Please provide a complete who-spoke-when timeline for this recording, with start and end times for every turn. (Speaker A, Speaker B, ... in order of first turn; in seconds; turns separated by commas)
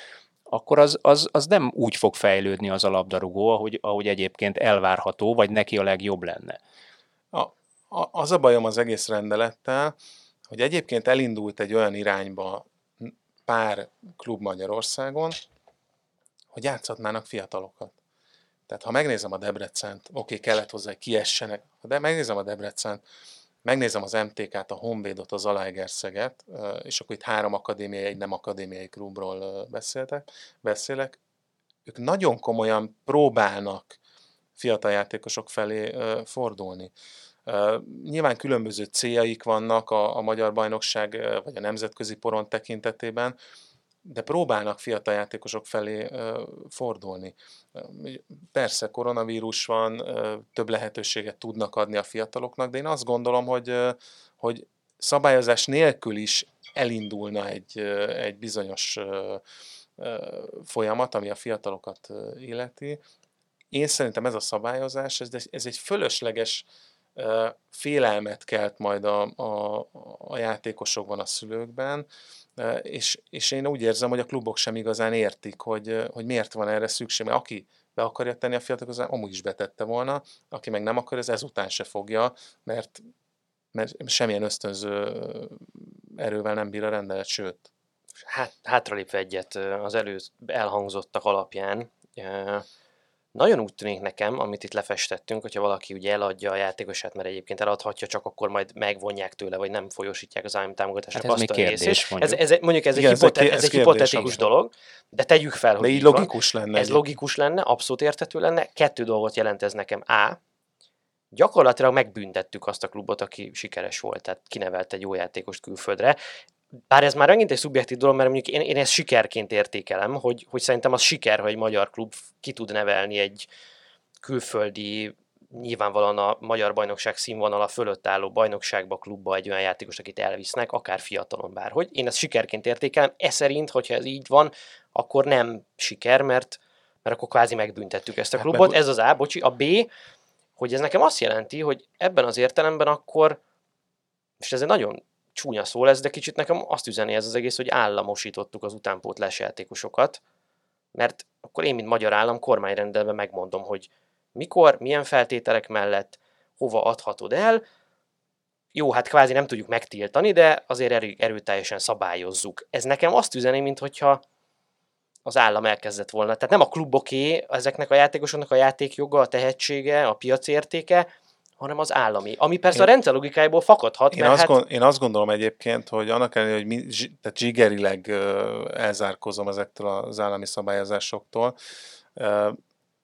Speaker A: 0.5-6.6, Speaker B: 7.3-9.9, Speaker B: 10.5-15.4, Speaker B: 16.5-17.9, Speaker B: 18.7-23.0, Speaker B: 23.6-31.2, Speaker B: 31.9-34.0, Speaker B: 34.6-36.9, Speaker B: 37.5-43.4, Speaker B: 44.0-59.4, Speaker B: 60.0-63.0, Speaker B: 63.7-72.1, Speaker B: 72.6-83.0, Speaker B: 83.7-87.7, Speaker C: 88.3-92.7, Speaker C: 93.3-110.4, Speaker A: 101.2-102.4, Speaker B: 103.0-104.5, Speaker B: 105.8-107.0, Speaker C: 111.3-116.2, Speaker C: 116.9-123.5, Speaker C: 124.2-139.9, Speaker B: 138.4-138.8, Speaker C: 140.6-143.4, Speaker C: 144.4-150.2, Speaker C: 150.9-157.6, Speaker C: 158.7-164.2, Speaker C: 165.2-171.1, Speaker C: 171.6-174.6, Speaker B: 174.1-181.6, Speaker B: 182.2-182.6